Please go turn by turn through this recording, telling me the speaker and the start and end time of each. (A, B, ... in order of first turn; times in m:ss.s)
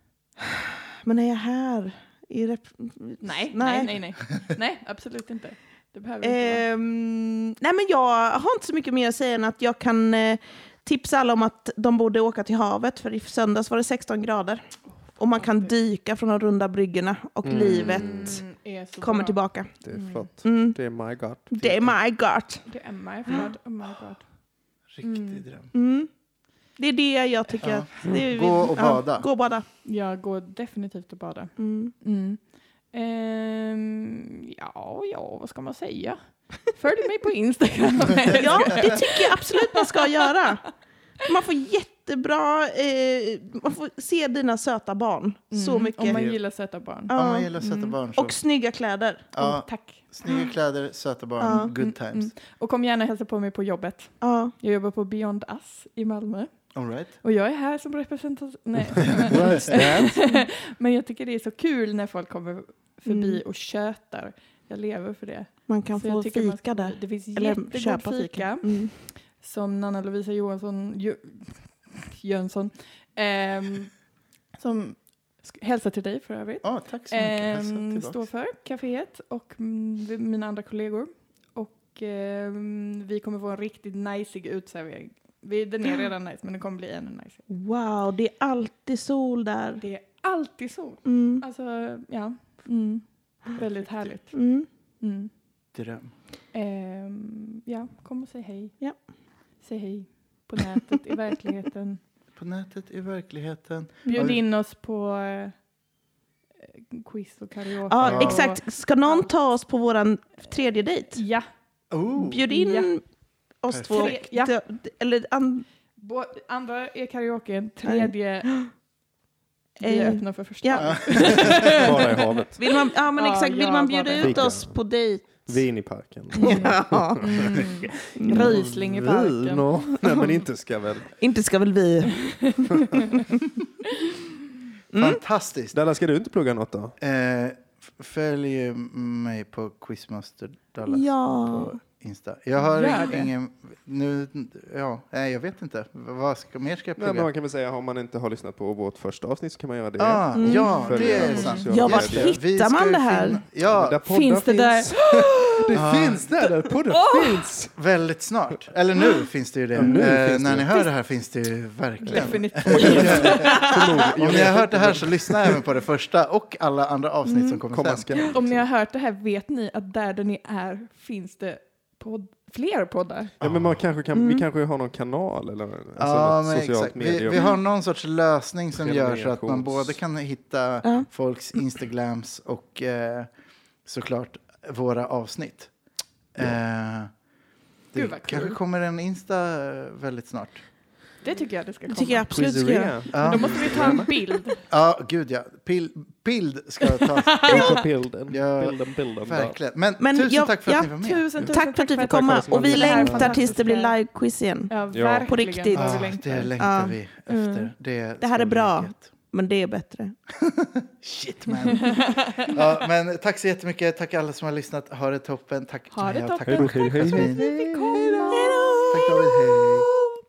0:00.5-0:03.9 A
0:03.2-0:06.6 B
0:06.2-0:18.4 A
0:15.4-0:15.7 B
0:17.4-0:18.4 C
0:17.7-0:20.3 B
0:19.0-0:20.8 A
0:19.8-0:22.0 C
0:21.5-0:22.7 A
0:22.6-0:24.3 B
0:24.9-0:25.7 D
0:25.0-0:25.4 B
0:25.7-0:26.1 A
0:26.8-0:29.6 A
0:27.6-0:29.2 D
0:29.8-0:40.4 B
0:31.6-0:31.9 A
0:38.3-0:46.3 A
0:45.5-0:47.9 B
0:47.1-0:47.5 A
0:47.1-0:48.4 D
0:48.1-0:49.3 A
0:49.3-0:52.3 D
0:49.4-0:50.1 B
0:51.4-0:51.7 A
0:51.4-1:14.0 B
0:54.2-0:54.5 A
0:56.7-0:57.1 D
0:59.2-1:00.2 C
0:59.3-0:59.6 D
1:03.0-1:03.4 A
1:05.7-1:08.9 A
1:14.5-1:27.4 B
1:16.6-1:18.3 D
1:27.5-1:29.8 A
1:29.8-1:35.3 B
1:31.0-1:31.4 A
1:33.6-1:34.1 D
1:34.3-1:34.7 A
1:35.7-1:36.1 D
1:36.5-1:42.0 B
1:42.4-1:44.4 D
1:44.0-1:44.3 A
1:44.0-1:45.6 B
1:46.7-1:49.3 B
1:47.9-1:51.2 A
1:48.0-1:48.5 D
1:51.1-1:51.5 B
1:51.9-1:52.4 D
1:52.2-1:55.6 A
1:52.5-1:52.9 B
1:53.7-1:54.2 D
1:53.9-1:54.5 B
1:56.0-1:58.7 B
1:57.8-1:58.7 A
1:59.8-2:02.4 B
1:59.8-2:01.6 A
2:00.8-2:01.7 D
2:01.7-2:02.6 C
2:02.6-2:05.6 A
2:03.1-2:04.5 B
2:04.2-2:11.2 C
2:06.4-2:09.7 B
2:06.4-2:07.6 A
2:08.2-2:08.6 A
2:11.2-2:12.5 A
2:14.9-2:15.2 A
2:14.9-2:15.8 D
2:15.7-2:17.0 C
2:17.0-2:27.3 D
2:20.8-2:21.7 A
2:22.6-2:23.3 B
2:27.0-2:32.3 C
2:30.0-2:34.0 D
2:30.3-2:30.8 A
2:30.7-2:31.7 B
2:31.7-2:33.4 A
2:33.6-2:37.8 C
2:34.0-2:35.8 B
2:35.7-2:36.3 D
2:36.4-2:37.5 B
2:37.8-2:48.2 D
2:39.8-2:40.7 C
2:42.0-2:44.1 B
2:42.2-2:45.6 C
2:47.2-2:47.6 A
2:47.7-2:48.6 C
2:48.3-2:53.3 B
2:53.4-2:57.4 C
2:53.5-2:53.8 D
2:54.1-2:54.4 A
2:56.0-3:03.3 D
2:58.8-3:00.0 C
3:03.8-3:05.7 D
3:06.3-3:07.1 D
3:07.9-3:10.6 D
3:07.9-3:08.6 B
3:11.2-3:14.6 B
3:11.9-3:13.2 A
3:12.3-3:14.1 C
3:13.1-3:14.1 D
3:14.7-3:21.2 D
3:16.8-3:17.8 B
3:17.4-3:19.6 C
3:20.0-3:24.7 A
3:21.0-3:24.0 B
3:22.0-3:23.5 C
3:23.2-3:23.6 D
3:24.7-3:26.5 B
3:24.9-3:25.3 C
3:25.3-3:26.9 A
3:25.7-3:29.1 D
3:27.3-3:27.7 B
3:28.2-3:30.1 A
3:30.3-3:38.3 D
3:31.6-3:32.5 B
3:35.9-3:39.2 B
3:36.4-3:38.0 C
3:38.3-3:39.8 A
3:38.9-3:39.9 D